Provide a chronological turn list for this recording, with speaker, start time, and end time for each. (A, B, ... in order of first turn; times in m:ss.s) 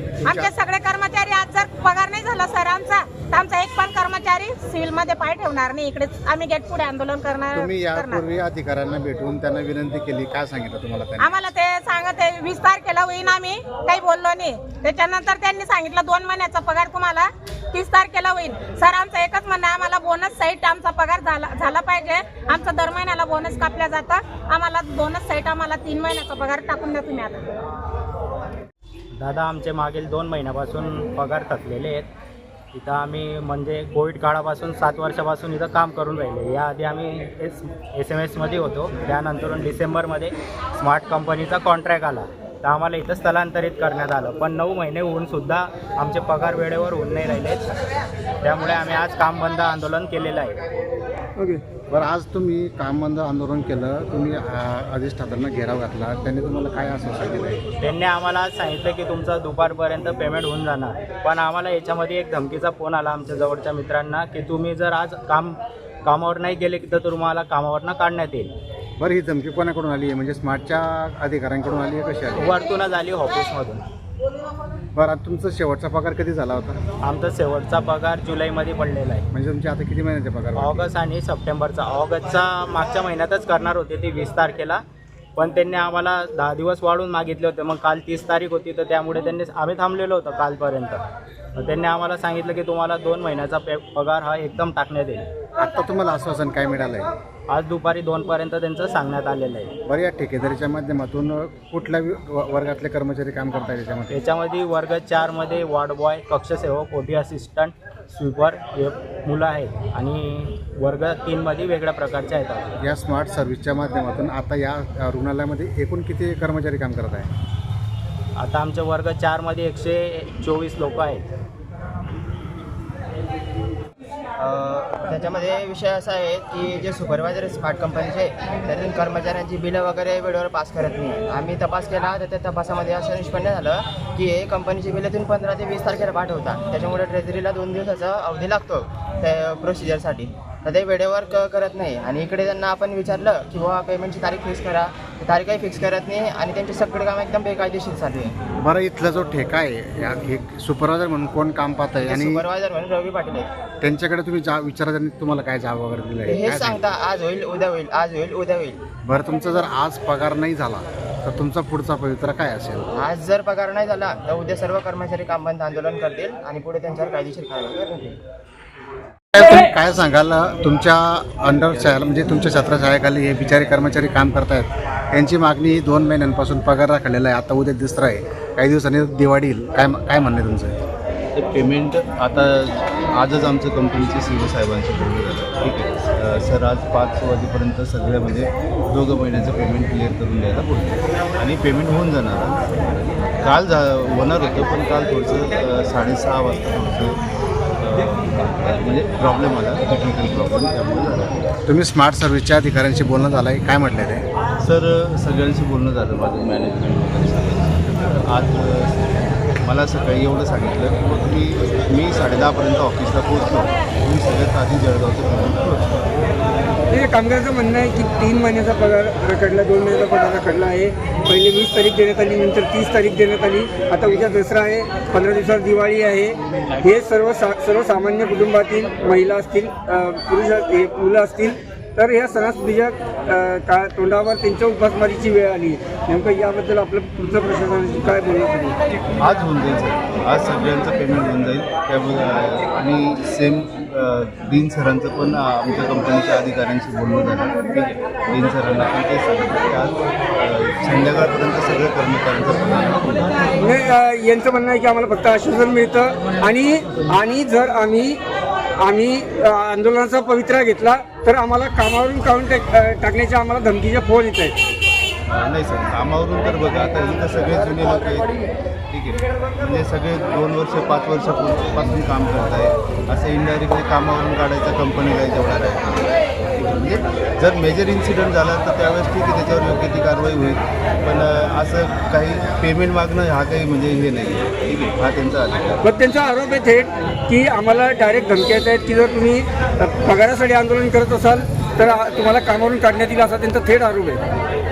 0:00.2-0:00.5 A
0:00.2-0:08.2 B
0:07.5-0:11.4 A
0:11.2-0:27.4 B
0:29.2-0:32.1 C
0:32.7-0:47.7 C
0:48.4-0:50.6 C
0:51.4-0:51.6 D
0:51.9-0:57.6 A
0:57.8-1:08.5 C
1:09.0-1:12.5 A
1:12.3-1:13.8 C
1:15.0-1:16.8 A
1:17.0-1:19.2 C
1:19.3-1:20.9 A
1:20.6-1:24.8 C
1:25.4-1:31.0 C
1:31.6-1:35.2 C
1:35.6-1:37.1 A
1:37.5-1:39.7 C
1:39.8-1:44.2 A
1:44.1-1:52.8 C
1:52.8-1:57.3 A
1:58.4-2:01.3 C
2:04.4-2:28.4 E
2:28.6-2:32.4 A
2:32.0-2:33.5 E
2:33.8-2:36.8 A
2:36.2-2:38.8 E
2:39.0-2:42.9 A
2:42.9-2:48.2 E
2:49.3-3:00.8 A
3:01.3-3:12.7 F
3:13.4-3:17.2 F
3:17.8-3:21.4 F
3:21.7-3:24.2 A
3:24.6-3:36.1 F
3:36.9-3:58.8 D
3:59.2-4:13.5 F
4:13.6-4:18.2 D
4:18.8-4:24.5 D
4:25.3-4:28.3 F
4:28.9-4:45.8 F
4:45.8-4:54.2 D